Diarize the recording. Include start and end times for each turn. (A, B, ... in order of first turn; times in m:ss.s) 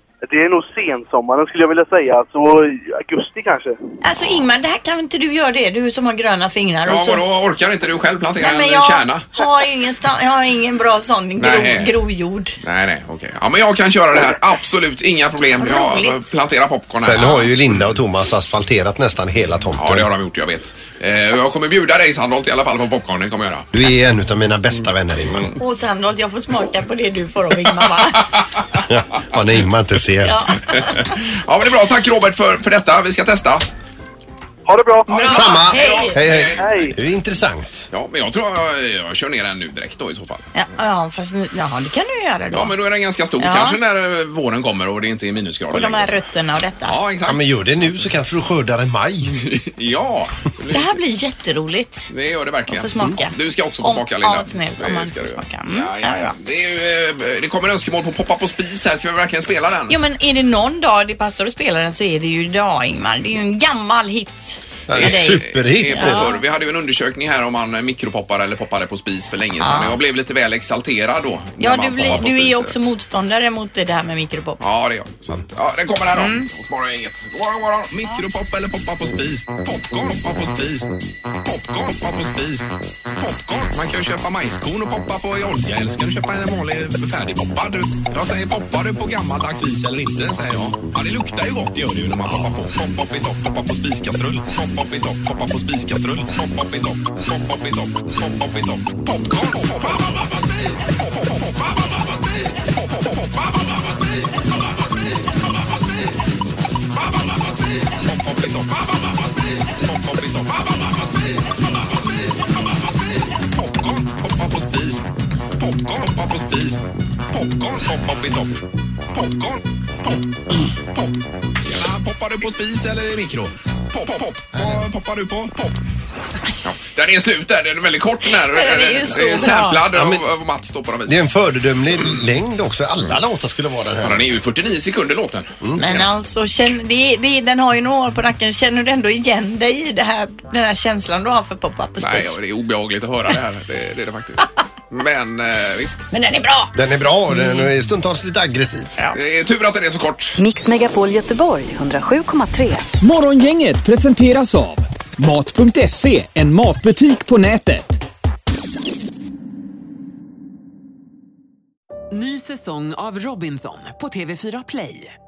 0:00.2-0:03.8 A
0:04.0-0:07.2 B
0:06.9-0:09.3 C
0:08.4-0:12.6 B
0:11.4-0:11.9 C
0:12.6-0:17.5 C
0:15.6-0:16.2 B
0:17.0-0:20.1 D
0:19.8-0:23.7 C
0:23.7-0:25.5 D
0:25.6-0:28.4 B
0:28.7-0:30.5 D
0:30.2-0:31.1 B
0:30.7-0:33.6 C
0:34.6-0:35.4 A
0:35.1-0:36.2 B
0:35.2-0:36.9 C
0:35.2-0:37.9 D
0:36.6-0:36.9 A
0:37.9-0:40.5 C
0:40.5-0:42.7 B
0:42.5-0:46.2 C
0:43.4-0:43.8 B
0:45.7-0:47.0 B
0:46.8-0:48.1 C
0:47.3-0:49.4 D
0:49.3-0:50.9 C
0:50.7-0:52.1 B
0:52.1-1:00.0 C
0:52.7-0:56.4 B
0:59.9-1:06.3 B
1:04.9-1:06.4 D
1:04.9-1:12.7 C
1:09.6-1:10.0 B
1:11.6-1:14.6 B
1:14.6-1:20.9 C
1:16.1-1:16.5 B
1:21.4-1:42.1 C
1:42.7-1:43.9 C
1:47.0-1:47.4 C
1:47.9-1:51.1 C
1:53.5-1:55.0 C
1:55.6-1:58.6 C
1:59.1-2:05.8 C
2:04.5-2:04.8 D
2:06.6-2:11.3 C
2:08.3-2:09.8 B
2:09.9-2:10.2 D
2:11.0-2:14.4 D
2:14.0-2:15.6 C
2:15.6-2:16.0 D
2:15.8-2:22.3 B
2:22.0-2:26.1 C
2:26.1-2:26.6 B
2:26.7-2:28.9 D
2:29.1-2:30.4 C
2:30.4-2:32.9 E
2:33.0-2:38.0 F
2:42.1-2:45.1 G